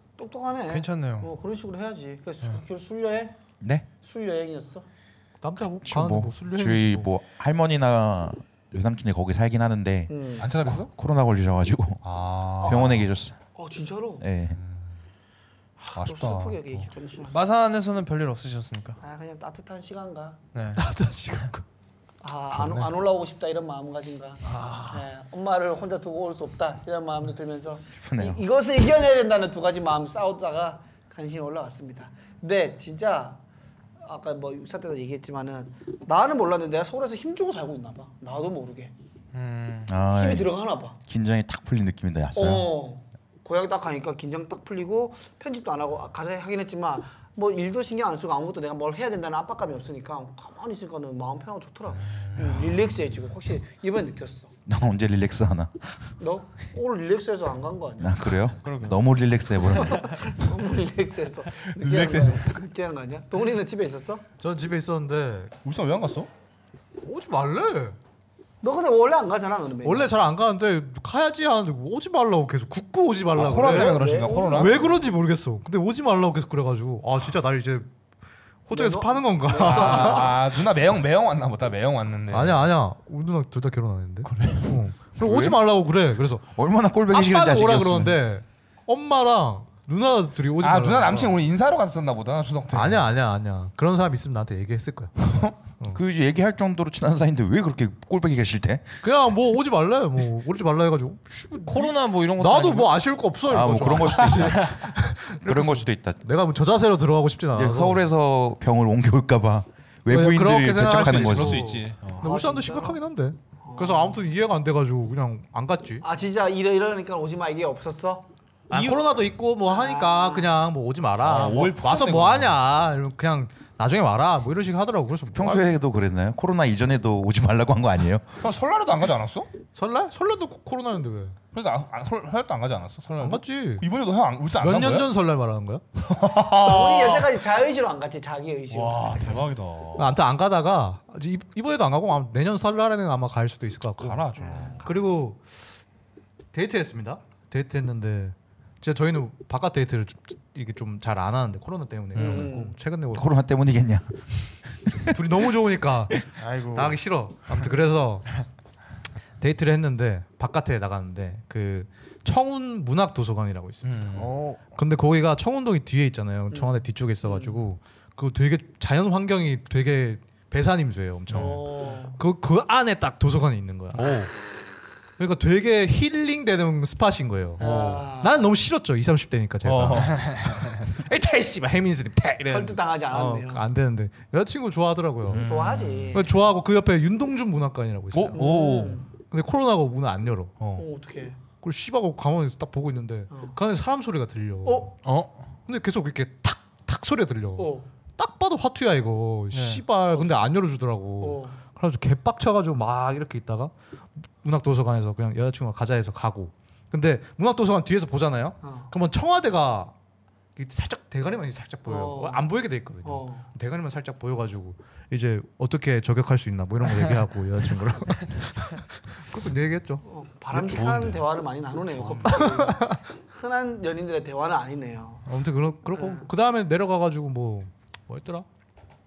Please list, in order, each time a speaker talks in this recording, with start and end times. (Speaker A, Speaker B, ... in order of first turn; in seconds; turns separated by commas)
Speaker A: 0.2-3.4, Speaker B: 0.7-1.3, Speaker C: 3.6-3.9, Speaker A: 4.0-4.8, Speaker D: 5.4-7.1, Speaker C: 5.5-12.0, Speaker A: 10.1-10.5, Speaker E: 10.4-10.9, Speaker E: 12.0-13.1, Speaker C: 12.6-13.3, Speaker A: 13.6-14.2, Speaker C: 14.2-14.6, Speaker E: 14.5-15.0, Speaker A: 15.8-17.4, Speaker E: 15.9-16.9, Speaker B: 17.3-19.0, Speaker A: 19.0-20.4, Speaker B: 20.5-20.8, Speaker D: 20.8-21.6, Speaker A: 22.2-33.4, Speaker E: 22.5-22.9, Speaker B: 24.4-25.1, Speaker C: 28.0-28.4, Speaker A: 34.0-38.9, Speaker B: 39.3-39.9, Speaker C: 39.9-40.5, Speaker A: 40.1-41.0, Speaker C: 41.0-42.7, Speaker A: 42.3-54.5, Speaker E: 52.0-52.9, Speaker C: 54.6-55.7, Speaker A: 56.2-58.2, Speaker C: 58.0-60.1, Speaker B: 58.6-59.0, Speaker B: 59.6-60.2, Speaker A: 60.2-64.2, Speaker E: 61.6-62.5, Speaker D: 64.4-65.5, Speaker E: 65.6-66.3, Speaker D: 67.0-68.0, Speaker A: 68.6-70.1, Speaker D: 69.8-77.9, Speaker E: 73.3-74.9, Speaker A: 73.6-75.0, Speaker D: 78.7-80.4, Speaker A: 78.7-80.4, Speaker E: 79.6-82.7, Speaker D: 82.3-86.4, Speaker E: 84.2-84.8, Speaker C: 85.2-85.6, Speaker C: 86.5-88.2, Speaker D: 87.1-91.4, Speaker E: 90.6-93.1, Speaker D: 92.7-95.2, Speaker E: 95.2-95.6, Speaker C: 95.9-99.0, Speaker D: 99.0-108.0, Speaker B: 101.6-103.0, Speaker C: 103.5-106.2, Speaker B: 104.4-104.7, Speaker C: 107.5-111.8, Speaker D: 110.1-116.0, Speaker E: 110.8-112.2, Speaker A: 112.2-113.0, Speaker A: 113.6-114.2, Speaker A: 116.0-118.3, Speaker B: 118.7-119.0, Speaker D: 118.7-125.7, Speaker A: 119.7-120.5, Speaker E: 121.2-122.6, Speaker C: 125.3-128.4, Speaker E: 128.4-129.5, Speaker D: 129.7-131.4, Speaker E: 131.5-135.1, Speaker D: 133.2-133.8, Speaker D: 134.6-135.8, Speaker E: 136.0-137.3, Speaker A: 136.5-139.5, Speaker E: 138.7-140.1, Speaker D: 140.0-145.6, Speaker E: 144.0-144.8, Speaker A: 144.3-144.9, Speaker D: 146.5-153.3, Speaker E: 152.2-152.5, Speaker A: 152.2-152.8, Speaker C: 153.1-155.3, Speaker D: 155.1-156.1, Speaker B: 156.4-157.0, Speaker D: 156.7-158.4, Speaker D: 159.4-174.2, Speaker E: 163.8-164.4, Speaker B: 164.2-164.6, Speaker A: 166.5-167.7, Speaker E: 171.3-171.6, Speaker A: 171.3-172.2, Speaker E: 173.9-174.3, Speaker D: 175.2-185.5, Speaker A: 177.6-178.4, Speaker E: 179.6-180.8, Speaker A: 182.4-183.6, Speaker E: 185.3-186.2, Speaker A: 185.3-186.3, Speaker D: 186.1-188.4, Speaker E: 188.1-189.0, Speaker A: 188.3-189.1, Speaker D: 189.2-190.6, Speaker E: 190.6-190.8, Speaker A: 190.8-191.4, Speaker D: 191.6-194.9, Speaker A: 193.3-193.6, Speaker A: 194.6-194.9, Speaker E: 195.1-195.4, Speaker D: 195.7-203.7, Speaker A: 197.6-197.9, Speaker B: 199.5-199.8, Speaker A: 200.1-200.4, Speaker A: 201.2-201.6, Speaker D: 204.4-209.9, Speaker A: 208.6-208.9, Speaker D: 210.6-220.0, Speaker A: 211.9-212.5, Speaker A: 213.0-213.5, Speaker A: 220.0-225.2, Speaker E: 220.5-221.2, Speaker E: 221.9-222.4, Speaker D: 222.2-223.0, Speaker D: 225.3-228.4, Speaker A: 225.9-226.3